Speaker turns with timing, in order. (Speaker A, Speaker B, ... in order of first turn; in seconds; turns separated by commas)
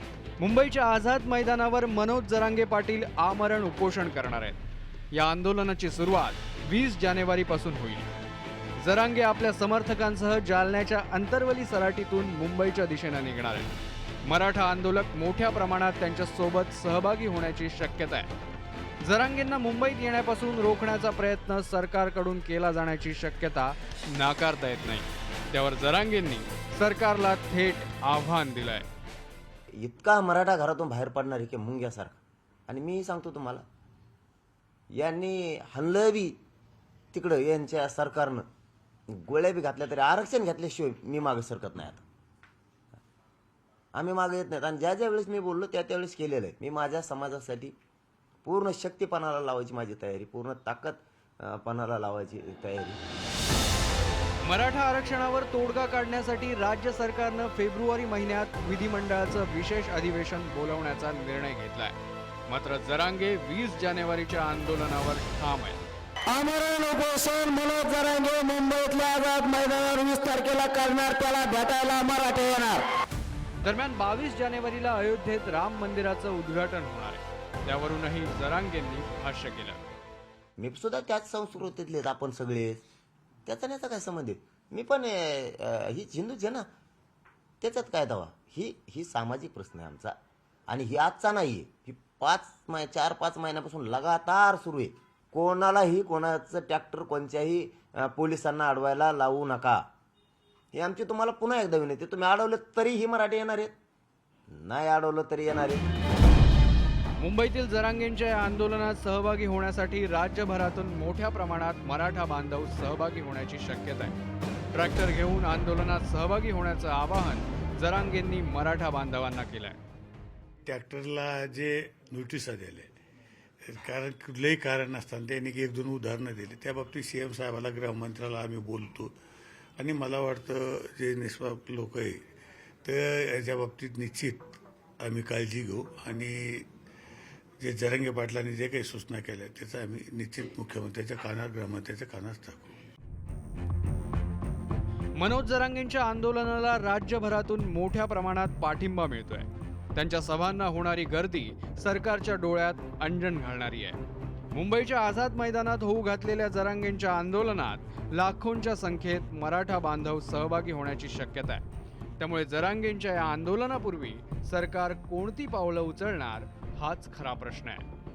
Speaker A: 0.4-4.6, Speaker A: 5.1-8.1, Speaker A: 8.8-18.3, Speaker A: 19.0-28.9, Speaker B: 29.8-33.6, Speaker B: 35.0-36.4, Speaker B: 37.1-38.4, Speaker B: 39.1-42.0, Speaker B: 43.9-47.7, Speaker B: 48.4-53.0, Speaker A: 54.4-61.9, Speaker A: 62.5-65.8, Speaker C: 66.3-72.8, Speaker A: 73.6-79.8, Speaker B: 80.6-82.8, Speaker B: 83.5-86.7, Speaker B: 87.6-90.1, Speaker B: 90.7-99.8, Speaker B: 100.7-103.7, Speaker B: 104.5-105.9, Speaker A: 107.2-114.1, Speaker A: 114.7-119.8, Speaker D: 120.7-122.9, Speaker D: 123.6-129.1, Speaker D: 129.8-132.2, Speaker D: 132.8-134.4, Speaker D: 135.0-136.7, Speaker D: 137.6-142.7, Speaker A: 145.2-154.0, Speaker A: 154.5-161.6, Speaker A: 162.2-167.8